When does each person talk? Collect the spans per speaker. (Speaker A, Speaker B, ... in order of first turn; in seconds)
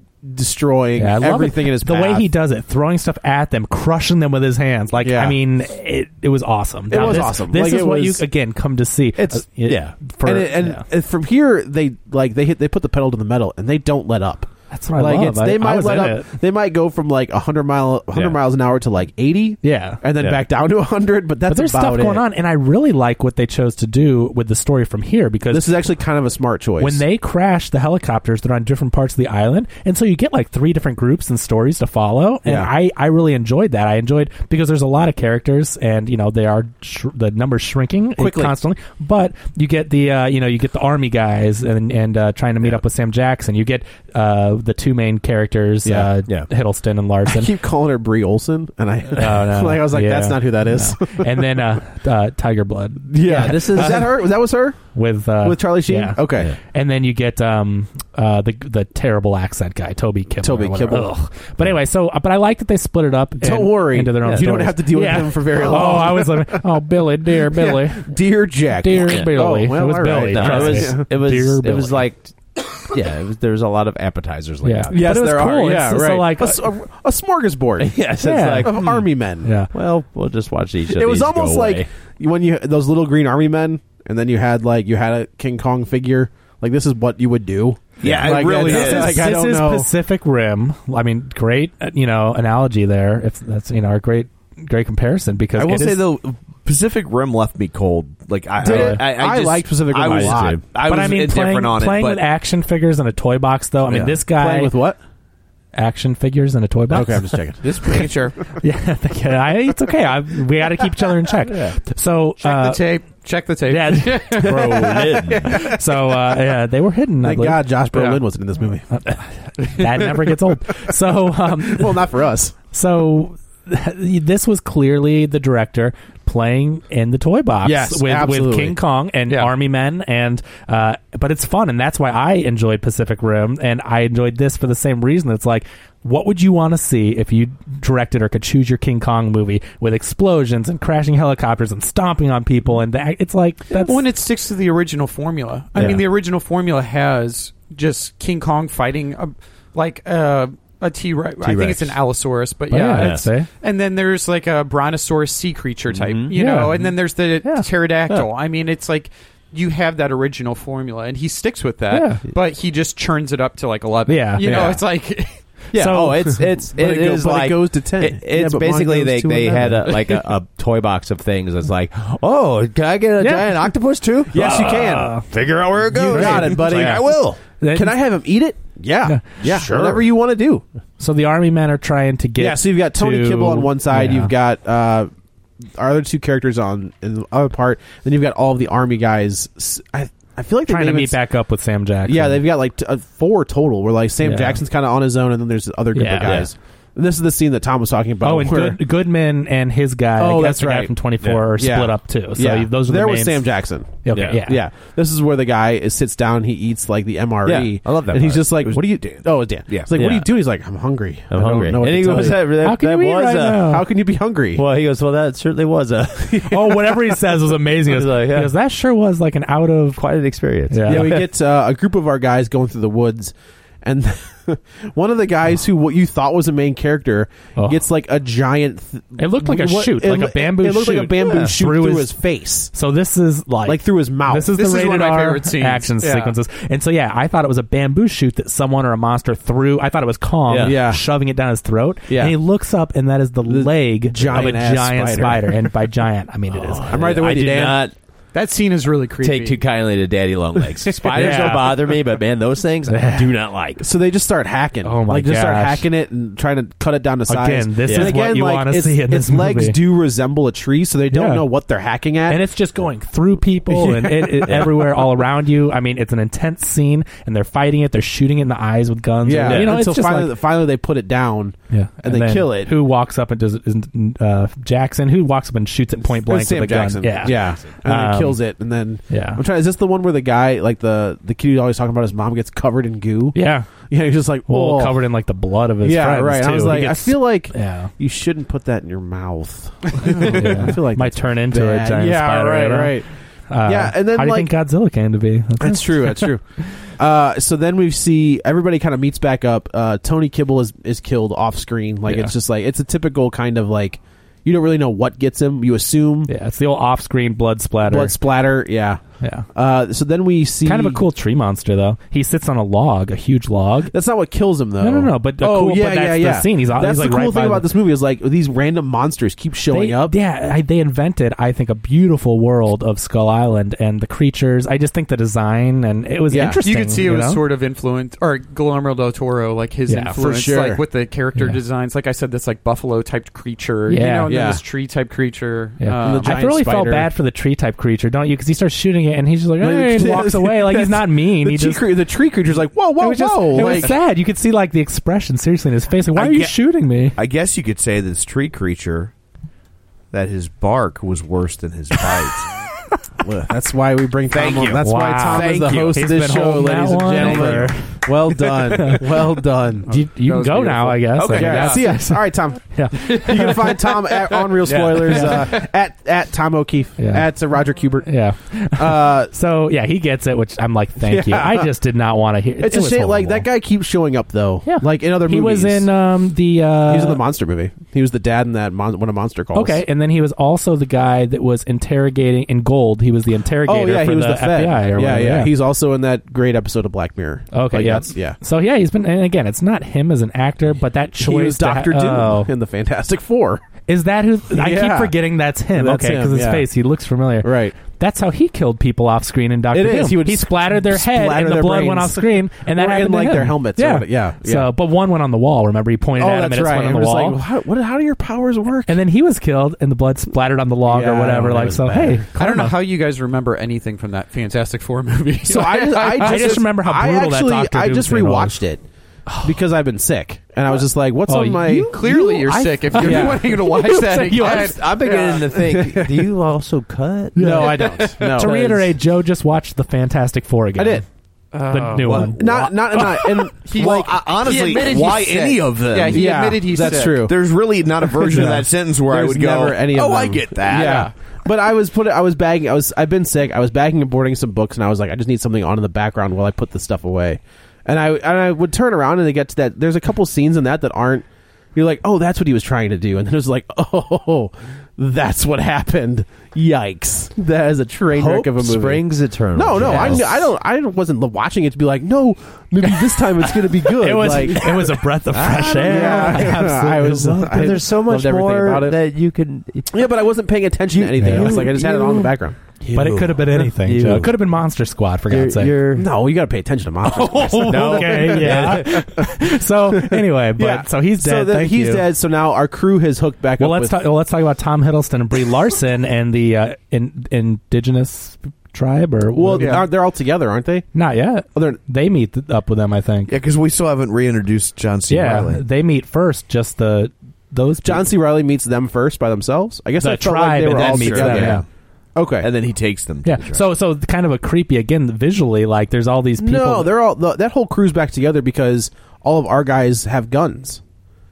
Speaker A: 0.2-2.3, 5.0-5.4, 6.9-8.2, 10.2-22.2, 25.5-27.0, 32.4-32.7, 38.2-38.5, 45.8-46.1, 47.3-51.5, 53.1-56.5, 60.4-61.1, 63.4-66.6, 67.4-71.1, 74.9-78.0, 78.6-79.6, 80.9-89.9, 98.6-100.6, 104.2-105.0, 106.9-108.5, 115.4-115.7, 117.2-118.9, 121.4-122.5, 127.6-128.8, 164.4-164.8, 166.4-170.2, 174.3-175.2, 175.8-180.6, 182.4-185.1, 185.8-191.2, 192.1-198.8, 200.2-212.5, 213.6-214.6, 216.3-217.0, 220.8-232.7, 233.6-234.6, 240.6-241.0, 242.1-242.3, 243.5-245.7, 246.9-247.9, 250.8-251.6, 253.8-262.4, 263.7-264.7, 269.2-272.7, 276.2-285.0, 285.8-293.1, 293.6-294.5, 295.6-296.4, 297.0-306.3, 307.8-309.0, 309.5-311.0, 313.9-320.2, 326.3-326.6, 330.2-330.8, 334.3-334.6, 336.0-337.1, 339.6-343.9, 353.2-359.9, 361.3-368.1, 368.7-369.3, 371.0-371.7, 372.6-375.9, 376.8-379.8, 383.6-388.4, 391.2-393.6, 394.5-395.2, 395.7-396.7, 397.4-397.8, 399.7-404.7, 406.2-408.9, 410.8-412.2, 415.4-418.8, 419.4-422.2, 422.9-423.9, 425.0-426.2, 427.4-428.8, 430.8-431.0, 432.0-434.1, 436.1-437.4, 438.1-469.0, 469.9-472.6, 475.9-484.0, 489.3-490.9, 497.8-502.5, 506.4-510.8
Speaker B: 1.0-10.8, 14.7-16.3, 19.6-20.0, 21.5-25.7, 26.8-47.5, 49.1-54.2, 54.9-68.0, 68.8-72.0, 74.6-76.6, 78.2-78.9, 79.4-79.7, 88.3-96.0, 98.6-99.0, 100.8-104.7, 105.7-107.3, 108.6-112.8, 113.7-117.6, 118.9-122.0, 122.7-144.0, 152.7-153.5, 156.3-156.9, 161.9-162.2, 164.1-164.6, 165.7-166.3, 173.2-173.7, 174.3-175.2, 176.1-176.7, 177.6-177.9, 181.0-184.3, 190.7-192.4, 194.2-194.6, 195.9-196.4, 198.2-203.5, 204.0-204.6, 212.1-213.8, 216.4-220.0, 220.7-221.1, 227.6-227.8, 229.2-232.2, 232.7-247.0, 251.1-251.8, 252.9-253.3, 254.8-255.9, 257.3-259.8, 261.1-261.4, 262.3-270.3, 271.7-278.4, 279.1-279.4, 283.3-283.7, 284.5-287.9, 290.0-293.0, 293.5-296.3, 302.1-302.3, 306.3-308.2, 309.2-309.5, 310.6-313.9, 314.8-317.7, 319.7-327.4, 329.9-330.2, 333.9-334.3, 335.8-341.8, 343.0-347.2, 354.8-359.2, 359.8-363.6, 365.0-365.5, 367.0-367.3, 368.0-373.5, 374.6-377.2, 379.5-385.5, 387.5-392.5, 393.9-407.4, 408.9-412.8, 416.1-418.6, 419.3-419.6, 421.3-424.8, 427.4-431.0, 431.7-433.1, 438.3-438.6, 459.9-460.2, 463.4-467.7, 471.2-471.7, 472.9-475.8, 477.1-482.1, 483.6-489.8, 490.9-493.3, 495.1-498.1, 500.0-501.6, 503.2-506.9
Speaker C: 9.2-10.1, 64.2-64.5, 70.2-75.2, 77.8-79.1, 79.7-81.8, 88.0-88.4, 98.6-100.6, 111.5-111.7, 114.4-115.5, 145.7-146.0, 151.4-152.0, 152.9-153.3, 155.9-156.3, 165.7-177.4, 179.4-180.1, 196.2-196.5, 204.1-204.5, 207.4-209.2, 209.7-210.3, 211.3-213.7, 214.5-216.5, 217.9-218.5, 220.0-221.3, 231.2-231.5, 240.5-240.8, 246.6-247.9, 249.2-253.8, 257.8-258.2, 269.4-269.8, 354.3-355.9, 361.2-361.9, 364.6-365.2, 424.2-428.7, 458.1-460.4, 465.4-466.4, 467.5-469.9, 470.9-474.3, 475.3-476.1, 477.6-479.1, 501.2-501.5
Speaker D: 88.0-89.3, 95.5-102.2, 347.1-349.1, 350.1-352.5, 355.4-355.9, 433.7-441.1, 493.3-495.6, 500.7-501.6, 502.4-503.6
Speaker E: 107.6-108.4, 112.4-115.1, 117.9-118.2, 143.7-165.3, 234.5-236.3, 248.3-249.6, 326.6-336.3, 343.5-343.9, 360.0-361.7, 412.4-416.6, 421.9-425.4, 431.5-432.3, 433.6-437.3, 440.7-441.1, 489.6-489.8